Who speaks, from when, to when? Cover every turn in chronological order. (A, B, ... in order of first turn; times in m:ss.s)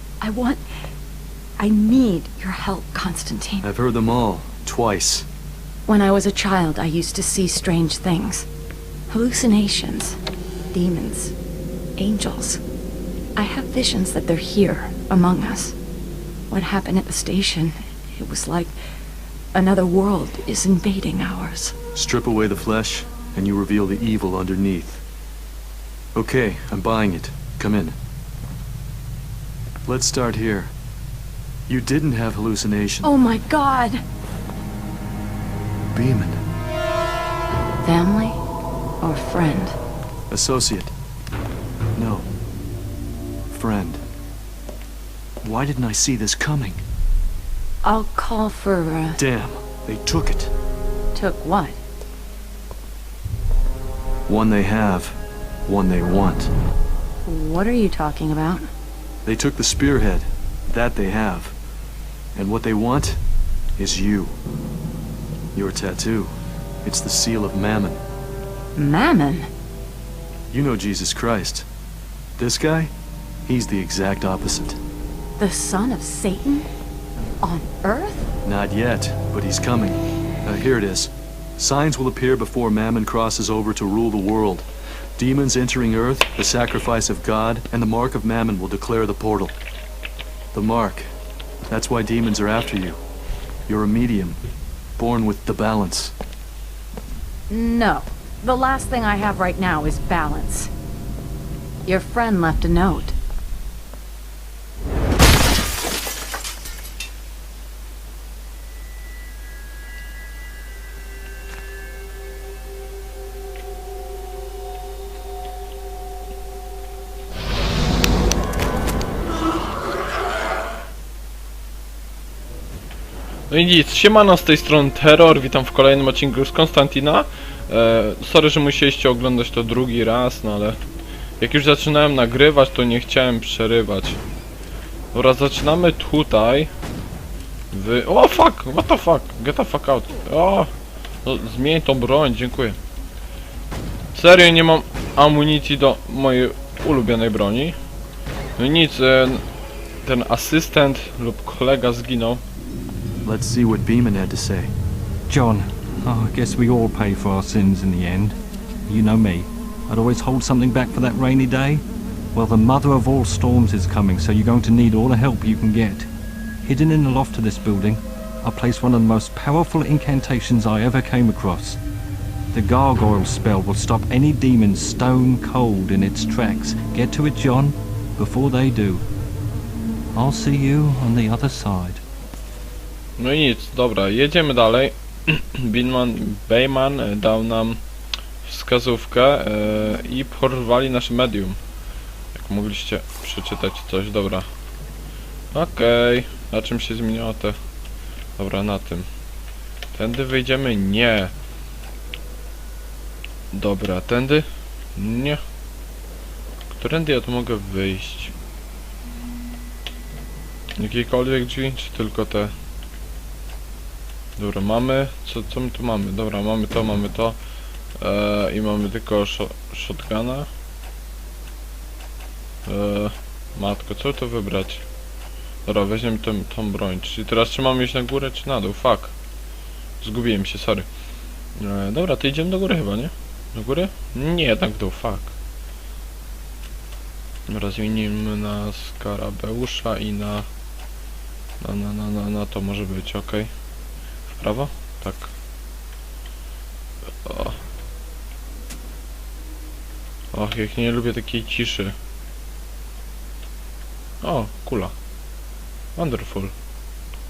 0:00.2-0:00.6 A
0:01.6-0:03.7 A
0:03.6-0:05.3 B
0:05.9-0:08.5 A
0:09.1-0:10.2 A
0:10.7-0:11.3 A
0:12.0-0:12.6 A
0:13.4-0:15.8 A
0:16.5-0:18.7 A
0:19.5-0:21.7 A
0:21.9-0:25.0 B
0:26.1-0:28.0 B
0:29.8-0:30.7 B
0:31.7-0:33.1 B
0:33.0-0:34.0 A
0:35.9-0:36.4 B
0:37.8-0:38.4 A
0:39.0-0:39.8 A
0:40.3-0:40.9 B
0:41.9-0:42.3 B
0:43.5-0:44.0 B
0:45.4-0:46.8 B
0:47.8-0:49.2 A
0:49.2-0:50.5 B
0:51.1-0:51.8 A
0:54.3-0:56.5 B
0:57.2-0:58.7 A
0:59.2-1:01.5 B
1:02.3-1:03.2 B
1:03.8-1:04.4 B
1:05.5-1:08.0 B
1:08.8-1:09.5 A
1:10.5-1:11.7 B
1:12.4-1:12.9 B
1:13.4-1:14.8 B
1:15.4-1:16.7 A
1:17.4-1:18.3 A
1:18.4-1:29.6 B
1:30.5-1:31.1 B
1:31.7-1:33.0 B
1:33.7-1:34.4 B
1:35.0-1:36.1 B
1:37.5-1:40.7 A
1:41.9-1:43.2 A
2:03.5-2:10.8 C
2:11.4-2:14.2 C
2:15.1-2:16.7 C
2:17.7-2:20.7 C
2:21.2-2:22.8 C
2:24.1-2:27.8 C
2:28.6-2:29.4 C
2:30.0-2:32.4 C
2:33.2-2:34.7 B
2:35.3-2:38.4 D
2:38.9-2:46.1 D
2:46.6-2:51.8 D
2:52.5-2:59.0 D
3:00.1-3:02.0 D
3:03.2-3:07.8 C
3:08.4-3:11.6 C
3:12.3-3:14.5 C
3:15.5-3:17.6 C
3:18.4-3:19.1 C
3:19.9-3:21.3 C
3:23.5-3:25.4 C
3:26.7-3:28.3 C
3:30.8-3:32.5 C
3:34.4-3:37.4 C
3:38.0-3:40.5 C
3:42.6-3:44.8 C
3:45.6-3:49.1 C
3:50.0-3:50.9 C
3:51.6-3:55.3 C
3:57.5-4:00.4 C
4:01.6-4:03.5 C
4:04.3-4:05.3 C
4:07.2-4:07.6 C
4:10.3-4:11.9 C
4:14.2-4:14.9 C
4:16.0-4:16.5 C